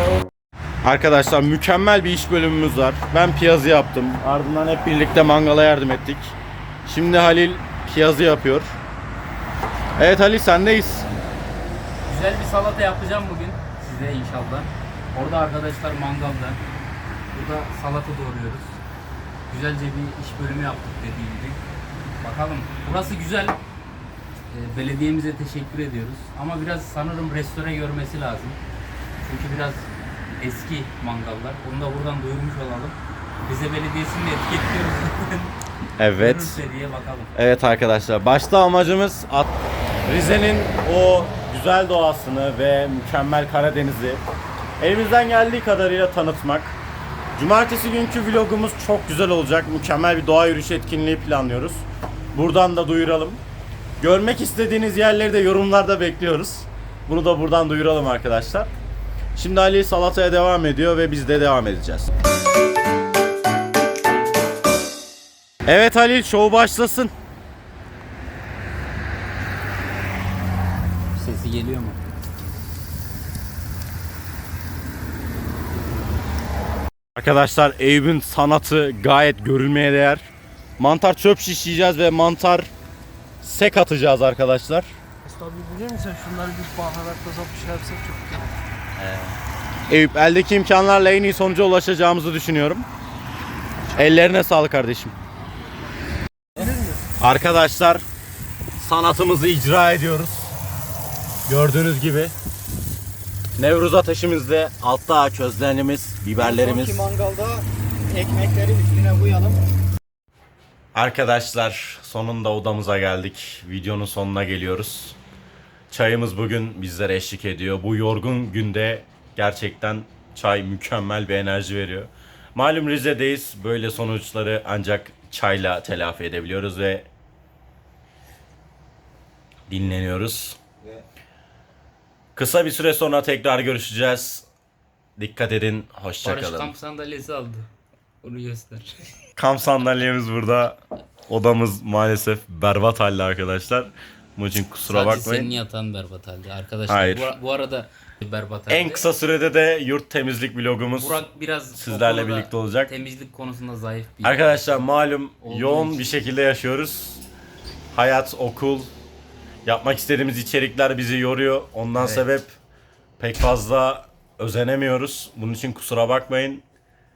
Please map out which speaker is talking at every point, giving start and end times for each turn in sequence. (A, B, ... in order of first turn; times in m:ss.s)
0:00.8-0:08.8 A
0:10.0-0:11.1 A
0:12.1-0:16.6 B
0:17.3-0:18.8 B
0:19.5-0:21.6 B
0:22.2-0:23.6 B
0:24.5-0:28.6 B
0:29.2-0:35.5 B
0:36.0-0:36.6 A
0:36.2-0:37.3 B
0:37.4-0:39.5 A
0:40.1-0:44.2 A
0:44.8-0:46.8 A
0:47.4-0:53.4 A
0:54.0-0:58.7 A
0:59.4-1:02.1 A
1:05.7-1:07.1 A
1:11.2-1:12.0 B
1:17.2-1:22.7 A
1:23.4-1:24.9 A
1:25.2-1:28.6 C
1:29.0-1:29.3 B
1:29.9-1:32.9 A
1:34.0-1:35.2 A
1:36.6-1:37.0 C
1:37.2-1:38.0 A
1:38.8-1:40.6 A
1:41.5-1:42.4 A
1:43.6-1:47.0 A
1:46.4-1:49.6 D
1:50.9-1:55.2 A
1:55.9-2:07.1 A
2:09.7-2:10.6 A
2:12.4-2:14.5 A
2:15.2-2:16.7 A
2:16.2-2:17.7 B
2:18.2-2:19.0 B
2:19.4-2:25.5 A
2:24.9-2:29.1 B
2:26.9-2:27.3 A
2:28.7-2:32.9 A
2:31.0-2:34.9 B
2:34.2-2:37.2 A
2:35.4-2:36.0 B
2:37.9-2:38.9 A
2:39.6-2:42.5 A
2:42.0-2:42.3 B
2:43.2-2:46.6 A